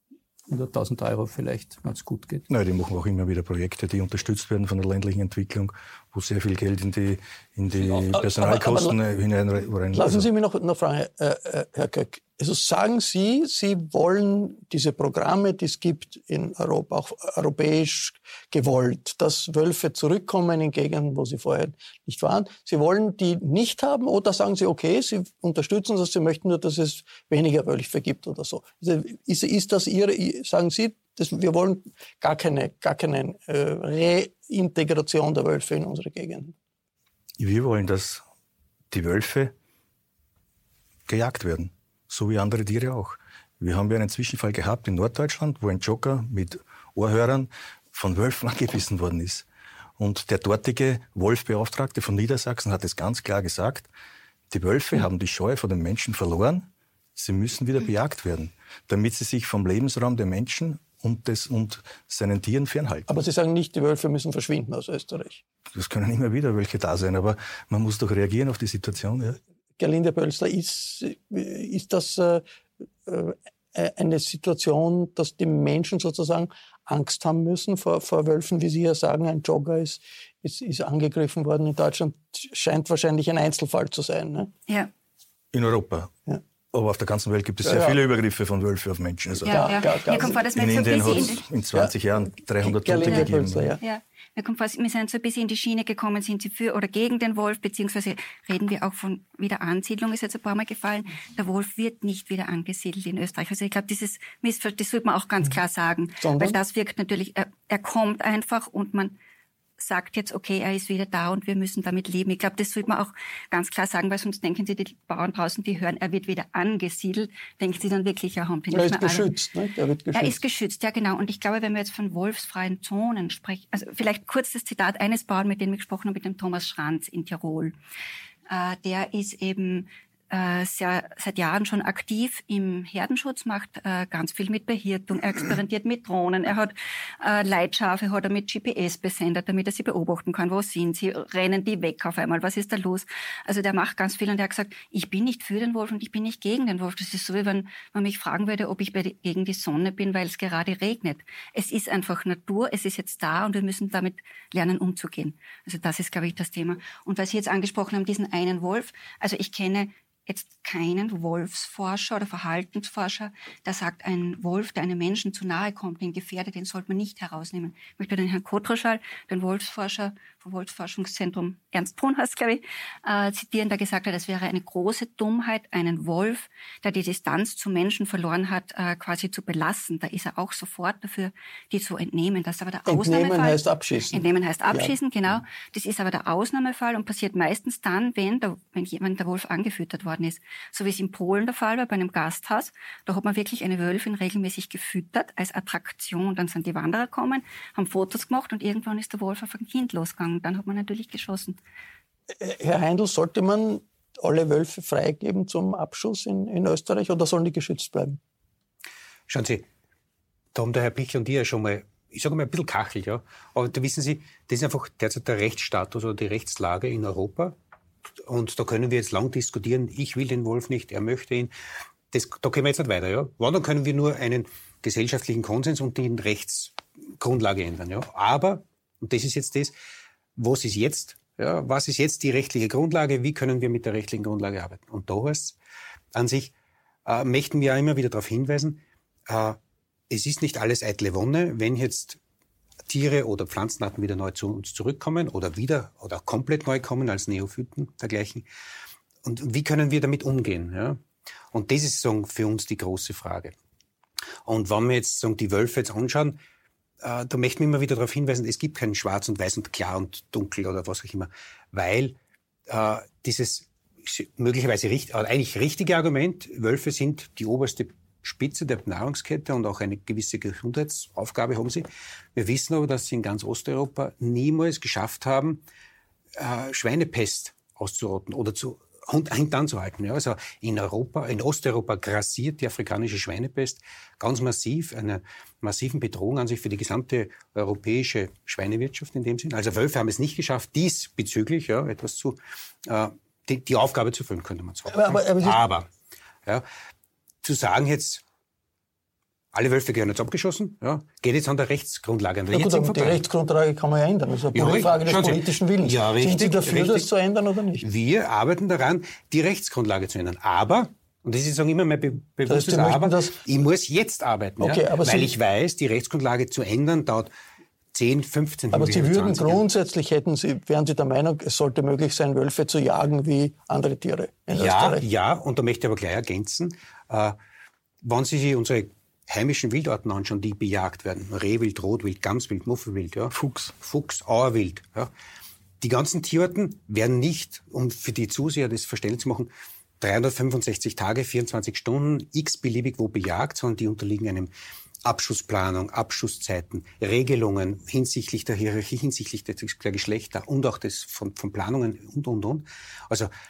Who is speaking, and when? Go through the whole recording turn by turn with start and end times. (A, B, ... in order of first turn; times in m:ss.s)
0:00.5-0:02.4 A
0:02.5-0:10.3 B
0:08.0-0:09.0 C
0:09.9-0:36.5 C
0:37.4-0:38.2 B
0:38.9-0:39.5 B
0:41.1-0:49.5 B
0:50.0-0:53.9 B
0:54.5-1:03.1 B
1:03.1-1:05.4 C
1:05.7-1:09.4 B
1:09.8-1:12.4 C
1:13.1-1:24.5 C
1:25.5-1:26.1 B
1:26.7-1:33.7 B
1:27.6-1:28.0 C
1:29.4-1:31.4 D
1:29.5-1:31.9 C
1:32.6-1:33.8 C
1:33.1-1:49.2 D
1:46.2-1:46.6 C
1:49.8-1:59.3 D
1:58.7-2:00.4 C
2:00.1-2:07.8 D
2:08.5-3:21.6 D
3:02.9-3:04.9 C
3:22.4-3:28.2 C
3:29.3-3:29.7 E
3:30.5-3:37.5 E
3:38.2-3:41.5 E
3:42.1-3:49.7 E
3:50.4-3:55.6 E
3:56.2-3:56.5 E
3:57.0-3:59.6 E
4:00.1-4:02.2 E
4:02.9-4:08.5 E
4:09.2-4:11.0 E
4:11.5-4:13.5 E
4:14.5-4:16.4 E
4:17.0-4:22.2 E
4:22.7-4:35.6 E
4:36.4-4:55.9 E
4:54.9-4:55.6 C
4:57.4-4:58.2 E
4:59.5-5:03.2 E
5:02.5-5:07.8 C
5:04.5-5:07.1 E
5:07.8-5:17.3 E
5:12.5-5:13.4 C
5:14.6-5:15.3 C
5:17.9-5:19.6 E
5:18.7-5:25.0 C
5:24.5-5:27.4 E
5:28.0-5:35.1 E
5:33.3-5:33.8 B
5:35.8-5:44.5 E
5:45.0-5:53.3 E